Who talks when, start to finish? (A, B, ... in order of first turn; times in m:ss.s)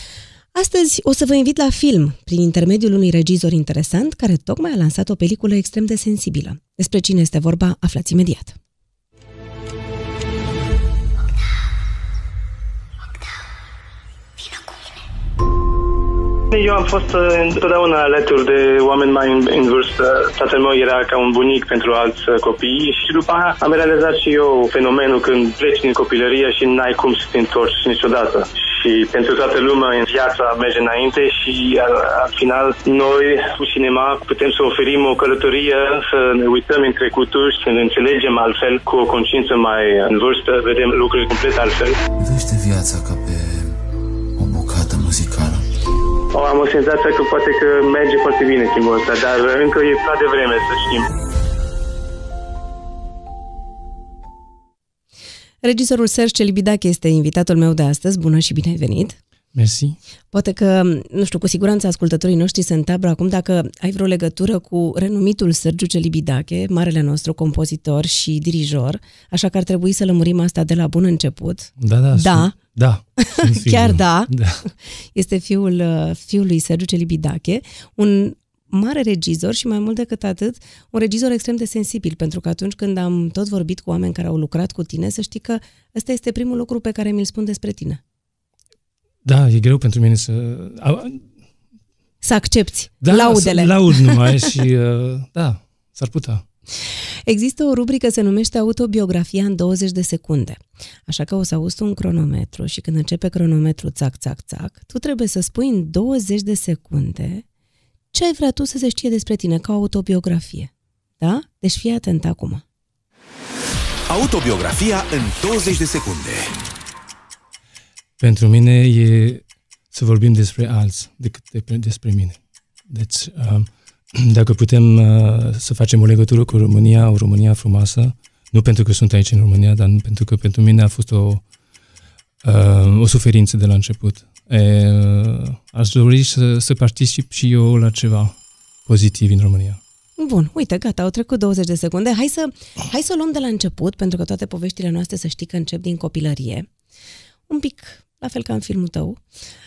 0:00.5-0:08.5 A
0:16.5-0:42.0 B
0:42.2-0:43.8 C
0:44.4-0:45.6 C
0:46.3-0:51.1 B
0:55.6-0:59.2 A
0:59.5-1:00.0 D
1:00.3-1:12.5 A
1:11.8-1:14.6 D
1:13.2-1:14.3 A
1:15.1-1:28.0 A
1:29.2-1:31.2 D
1:32.2-1:34.4 A
1:33.0-1:36.4 D
1:37.3-1:47.4 A
1:48.1-1:52.6 A
1:54.1-1:56.6 E
1:58.2-2:02.4 D
2:02.9-2:11.4 D
2:12.4-2:19.8 D
2:20.2-2:26.7 A
2:27.5-2:29.2 A